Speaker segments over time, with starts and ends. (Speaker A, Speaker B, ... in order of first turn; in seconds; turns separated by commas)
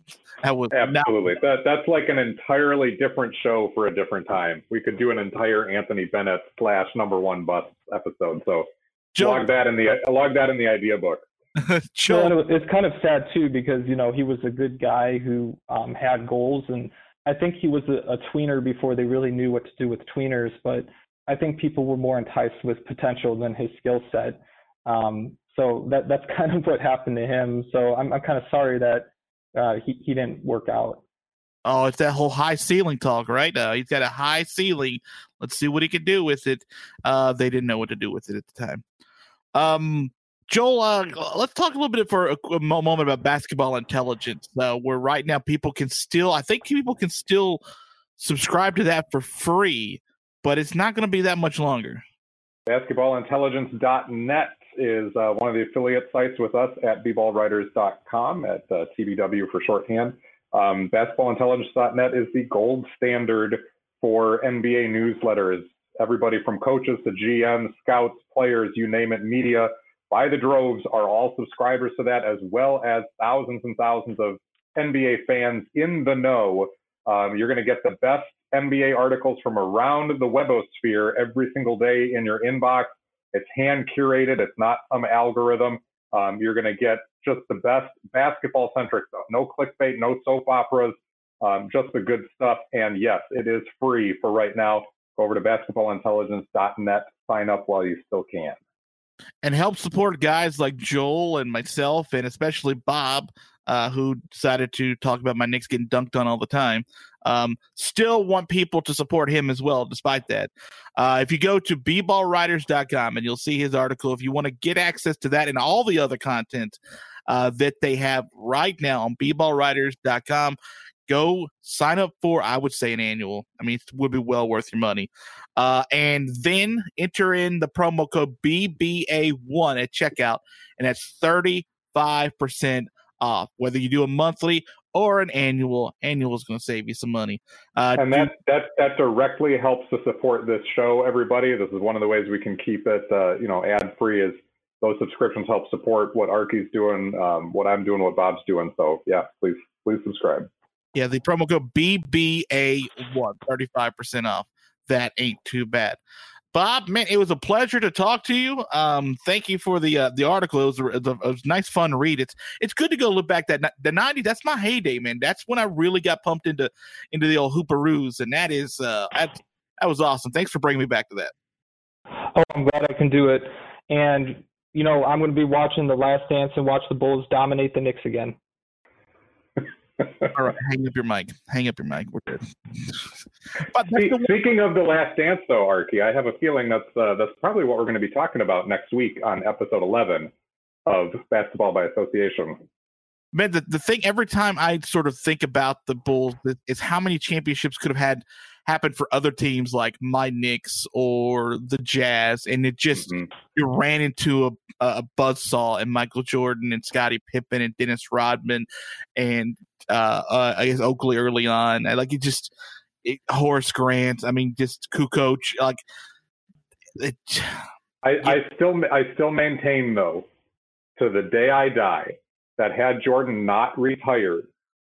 Speaker A: 0.4-1.1, Speaker B: 0.7-11.2, Speaker A: 9.2-9.5, Speaker A: 11.6-12.4, Speaker C: 12.1-31.0, Speaker A: 31.6-38.8, Speaker A: 39.5-47.6, Speaker A: 48.2-52.0, Speaker B: 52.7-98.6, Speaker A: 99.4-138.3, Speaker B: 138.0-150.5, Speaker A: 150.9-156.0, Speaker A: 156.5-171.3, Speaker C: 172.3-178.3, Speaker A: 180.3-182.5, Speaker A: 183.7-184.3, Speaker B: 183.9-190.3, Speaker B: 190.8-192.6, Speaker A: 193.3-212.5, Speaker A: 213.0-215.8, Speaker A: 217.0-217.6, Speaker B: 218.0-220.3, Speaker B: 221.0-224.4